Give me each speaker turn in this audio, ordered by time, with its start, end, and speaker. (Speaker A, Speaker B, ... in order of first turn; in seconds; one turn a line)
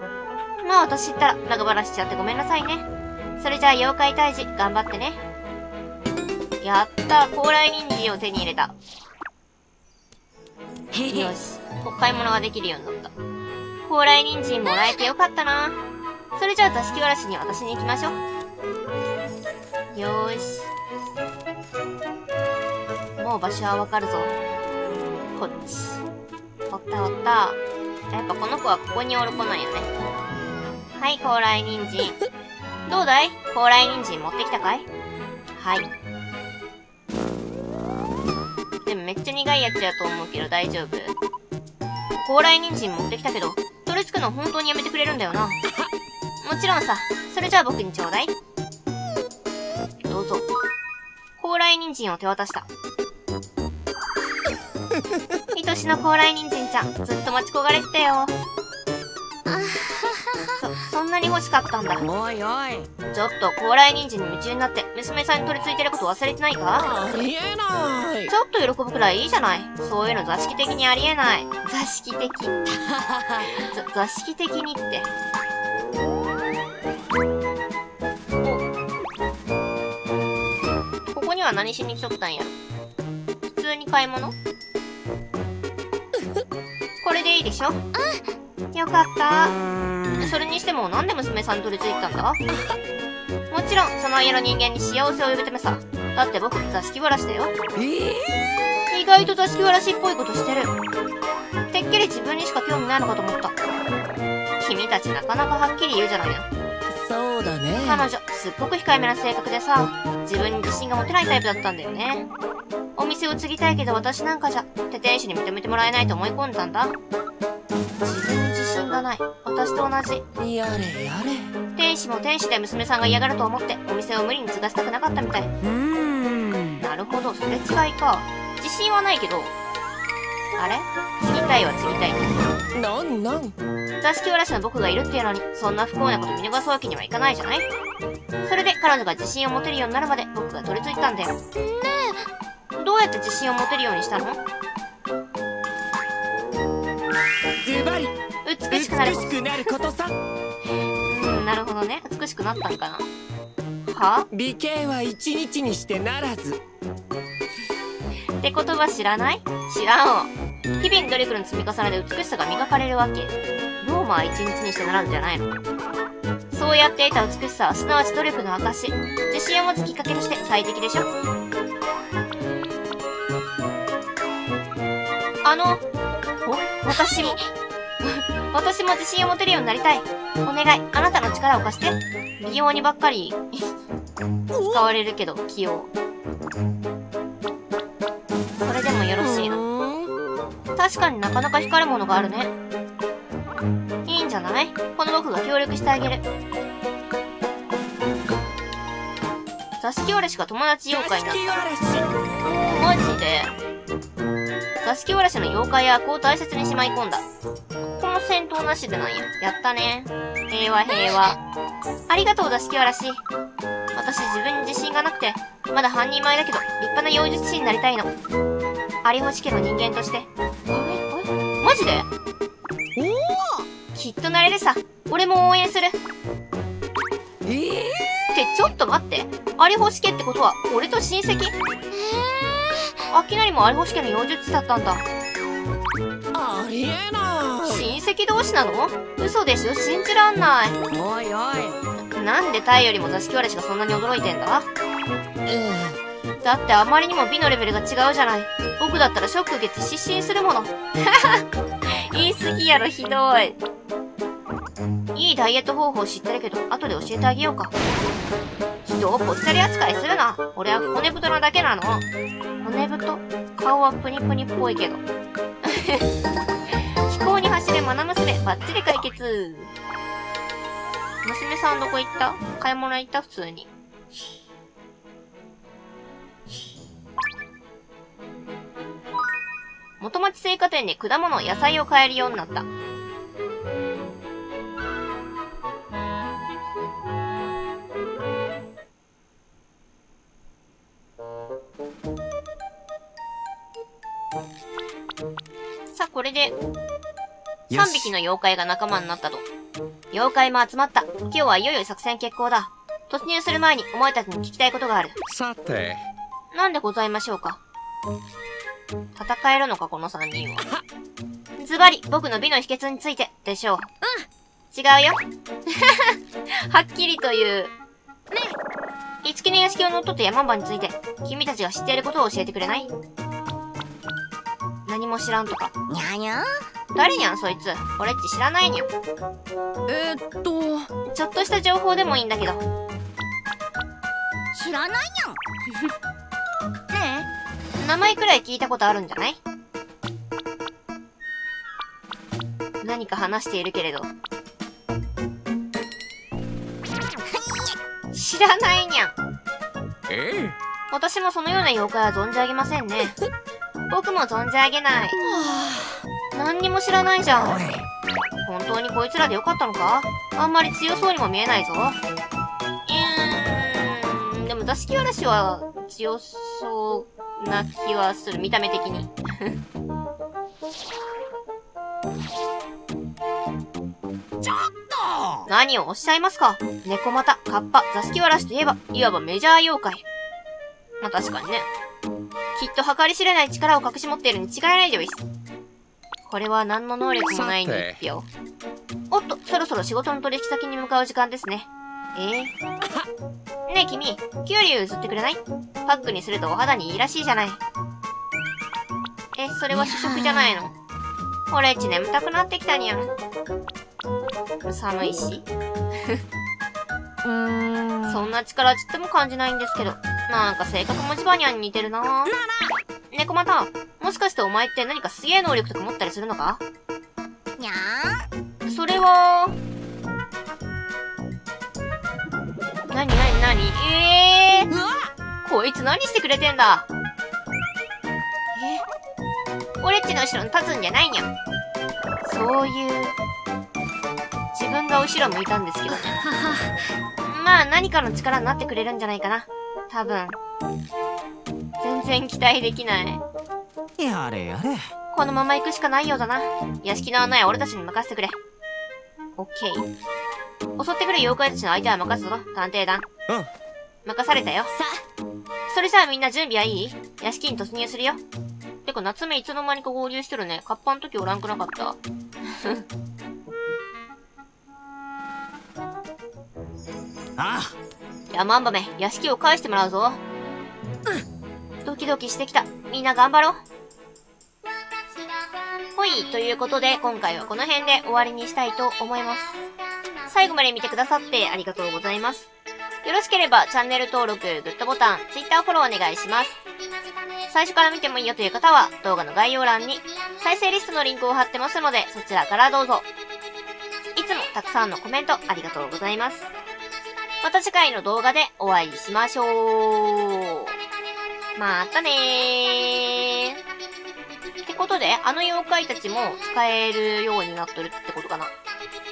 Speaker A: 0.6-2.9
Speaker A: 3.4-5.2
Speaker A: 6.6-8.7
Speaker B: 10.9-11.3
Speaker A: 11.1-13.1
Speaker A: 13.8-15.8
Speaker A: 16.4-18.2
Speaker A: 19.9-20.7
Speaker A: 23.2-24.3
Speaker A: 25.4-26.0
Speaker A: 26.7-27.6
Speaker A: 28.1-29.9
Speaker A: 31.0-32.2
Speaker A: 32.9-34.9
Speaker A: 35.5-35.9
Speaker A: 38.9-41.1
Speaker A: 42.2-45.6
Speaker A: 46.4-48.3
Speaker A: 50.1-50.5
Speaker A: 51.4-52.7
Speaker A: 55.5-58.3
Speaker C: 59.5-60.5
Speaker A: 60.6-62.0
Speaker B: 62.0-62.9
Speaker A: 63.1-66.9
Speaker B: 66.8-68.3
Speaker A: 68.3-72.6
Speaker B: 72.8-73.6
Speaker A: 73.6-75.1
Speaker A: 81.1-82.5
Speaker A: 83.5-84.3
Speaker A: 87.0-87.8
Speaker C: 88.0-88.2
Speaker A: 88.7-89.5
Speaker B: 89.9-90.2
Speaker A: 90.2-92.4
Speaker A: 93.5-97.5
Speaker B: 97.8-98.4
Speaker A: 98.9-100.7
Speaker A: 101.7-103.5
Speaker A: 104.6-106.5
Speaker B: 106.9-108.1
Speaker A: 107.8-112.3
Speaker A: 113.0-116.9
Speaker A: 118.0-120.2
Speaker B: 120.4-121.5
Speaker A: 121.8-125.5
Speaker B: 125.6-126.8
Speaker A: 126.8-129.5
Speaker A: 130.6-132.3
Speaker B: 132.7-133.6
Speaker A: 134.0-137.7
Speaker A: 138.5-141.4
Speaker B: 141.7-142.0
Speaker A: 142.8-144.4
Speaker B: 147.6-148.1
Speaker A: 148.4-149.6
Speaker B: 148.7-150.1
Speaker A: 151.1-153.1
Speaker A: 153.9-154.3
Speaker B: 154.3-156.6
Speaker A: 158.4-165.5
Speaker A: 166.5-171.1
Speaker A: 175.4-175.8
Speaker A: 176.4-177.4
Speaker C: 177.0-177.5
Speaker A: 178.0-183.4
Speaker B: 184.5-184.8
Speaker A: 184.7-185.9
Speaker A: 188.6-189.6
Speaker B: 189.2-190.1
Speaker A: 190.8-192.5
Speaker A: 194.1-196.2
Speaker A: 199.8-201.6
Speaker B: 200.9-202.1
Speaker A: 202.4-203.5
Speaker A: 204.8-207.2
Speaker A: 207.9-211.4
Speaker A: 212.1-213.2
Speaker A: 213.9-218.1
Speaker A: 219.0-220.3
Speaker B: 220.7-221.2
Speaker A: 221.6-222.1
Speaker B: 223.0-223.7
Speaker A: 223.9-226.0
Speaker B: 227.4-228.3
Speaker A: 228.3-231.5
Speaker C: 232.0-232.8
Speaker A: 233.1-235.1
Speaker B: 236.3-237.9
Speaker A: 237.6-240.8
Speaker B: 240.9-241.8
Speaker A: 242.1-244.7
Speaker B: 245.5-246.0
Speaker A: 246.4-251.4
Speaker A: 252.1-253.6
Speaker A: 255.1-257.7
Speaker A: 258.8-262.1
Speaker A: 262.6-265.0
Speaker A: 265.6-266.1
Speaker A: 267.1-269.7
Speaker A: 271.2-273.7
Speaker A: 280.0-282.7
Speaker A: 295.9-296.6
Speaker A: 297.7-299.5
Speaker A: 300.1-305.1
Speaker B: 305.3-306.1
Speaker A: 306.5-307.6
Speaker A: 309.2-310.6
Speaker A: 311.6-313.9
Speaker A: 314.7-315.2
Speaker A: 315.8-316.1
Speaker A: 316.7-317.7
Speaker A: 319.2-322.9
Speaker A: 324.9-325.7
Speaker C: 325.9-326.4
Speaker A: 326.9-328.9
Speaker B: 329.9-330.9
Speaker A: 331.1-332.6
Speaker C: 334.6-335.4
Speaker C: 336.9-337.2
Speaker A: 337.8-339.4
Speaker A: 342.8-344.1
Speaker C: 347.3-347.7
Speaker A: 348.1-349.1
Speaker B: 350.1-350.6
Speaker A: 350.9-353.2
Speaker A: 353.9-355.2
Speaker B: 355.2-356.0
Speaker A: 356.4-357.6
Speaker B: 357.4-357.9
Speaker A: 358.4-362.0
Speaker A: 362.9-369.5
Speaker B: 374.4-375.4
Speaker A: 375.5-380.0
Speaker A: 381.0-381.7
Speaker A: 382.6-385.2
Speaker A: 386.3-388.3
Speaker B: 387.3-388.0
Speaker A: 389.1-392.5
Speaker A: 393.7-397.6
Speaker A: 399.4-400.7
Speaker C: 399.7-400.5
Speaker A: 401.5-403.1
Speaker A: 404.6-405.5
Speaker C: 407.2-408.2
Speaker A: 408.1-412.3
Speaker A: 413.1-416.6
Speaker C: 417.6-418.1
Speaker A: 418.7-419.6
Speaker A: 422.9-424.7
Speaker A: 425.4-426.9
Speaker A: 428.6-428.8
Speaker A: 429.8-431.3
Speaker A: 432.2-433.1
Speaker A: 434.5-436.2
Speaker B: 436.2-436.6
Speaker A: 437.2-440.4
Speaker A: 441.8-443.2
Speaker B: 444.0-444.8
Speaker A: 445.1-448.4
Speaker A: 449.4-449.9
Speaker A: 450.8-453.1
Speaker A: 454.1-454.7
Speaker A: 455.7-458.2
Speaker A: 458.9-462.0
Speaker B: 467.4-467.7
Speaker A: 468.3-470.2
Speaker A: 471.9-473.6
Speaker A: 476.0-479.6
Speaker A: 480.3-482.5
Speaker A: 483.0-486.6
Speaker A: 487.5-493.1
Speaker A: 494.2-496.5
Speaker A: 497.4-500.7
Speaker A: 501.6-503.6
Speaker A: 504.6-508.5